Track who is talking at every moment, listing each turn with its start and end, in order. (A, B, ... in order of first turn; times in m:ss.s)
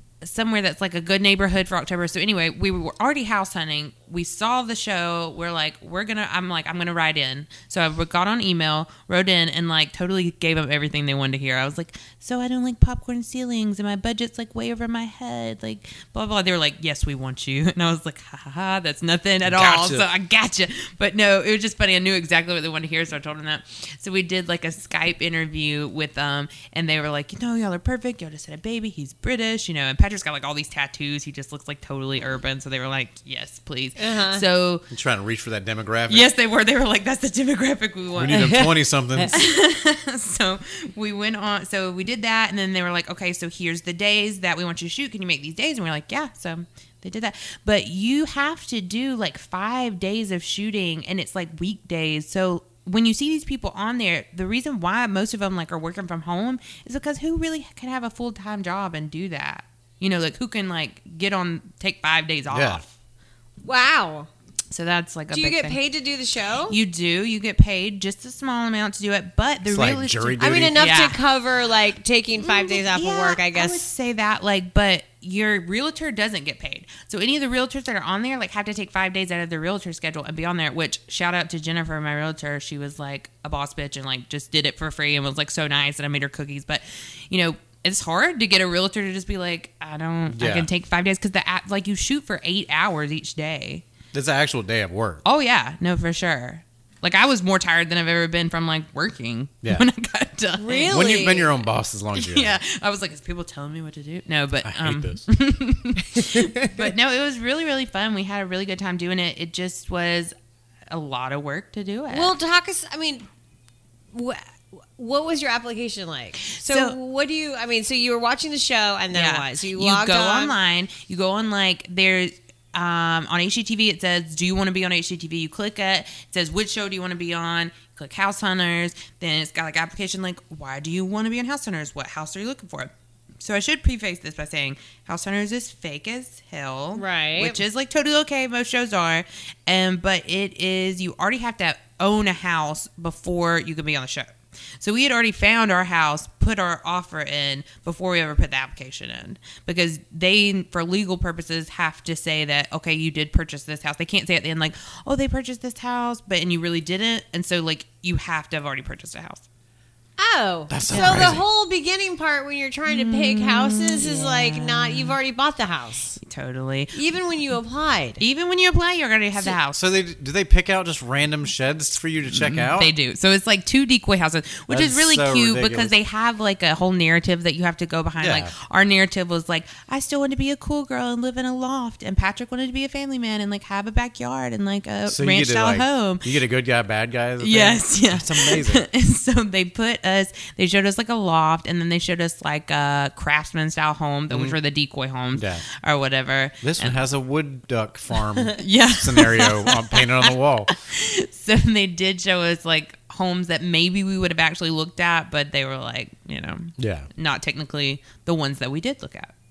0:00.2-0:34.8 A
0:19.4-0:20.1 B
0:34.0-0:34.4 C
0:34.9-0:36.3 B
0:36.1-0:38.5 A
0:38.1-0:39.4 B
0:38.3-0:39.4 C
0:39.3-1:02.9 A
1:02.5-1:02.8 B
1:03.6-1:04.3 C
1:04.7-1:05.8 A
1:05.3-1:06.8 C
1:06.7-1:11.2 A
1:09.6-1:10.8 B
1:10.4-1:13.8 C
1:12.4-1:33.8 A
1:30.3-1:30.7 B
1:34.1-1:35.2 B
1:35.2-1:41.1 A
1:40.6-1:41.5 C
1:40.9-1:42.6 B
1:42.1-1:50.3 A
1:44.6-1:45.2 B
1:46.3-1:46.9 C
1:50.9-1:52.3 A
1:52.1-1:53.3 C
1:54.1-1:54.4 C
1:55.0-2:00.6 C
1:56.4-1:57.0 A
1:59.1-2:39.4 A
2:16.9-2:17.6 C
2:40.2-2:46.2 C
2:40.7-2:41.4 B
2:40.9-2:41.4 A
2:42.9-2:45.2 A
2:46.2-2:47.0 A
2:46.9-2:48.2 C
2:48.2-2:49.8 A
2:49.5-2:52.9 B
2:52.3-3:06.3 A
2:54.7-2:55.9 B
2:58.2-2:58.5 B
3:05.1-3:08.8 B
3:07.4-3:17.0 A
3:14.3-3:14.6 B
3:15.3-3:15.6 B
3:16.6-3:20.7 B
3:18.6-3:20.1 A
3:20.8-3:29.3 A
3:26.8-3:27.1 B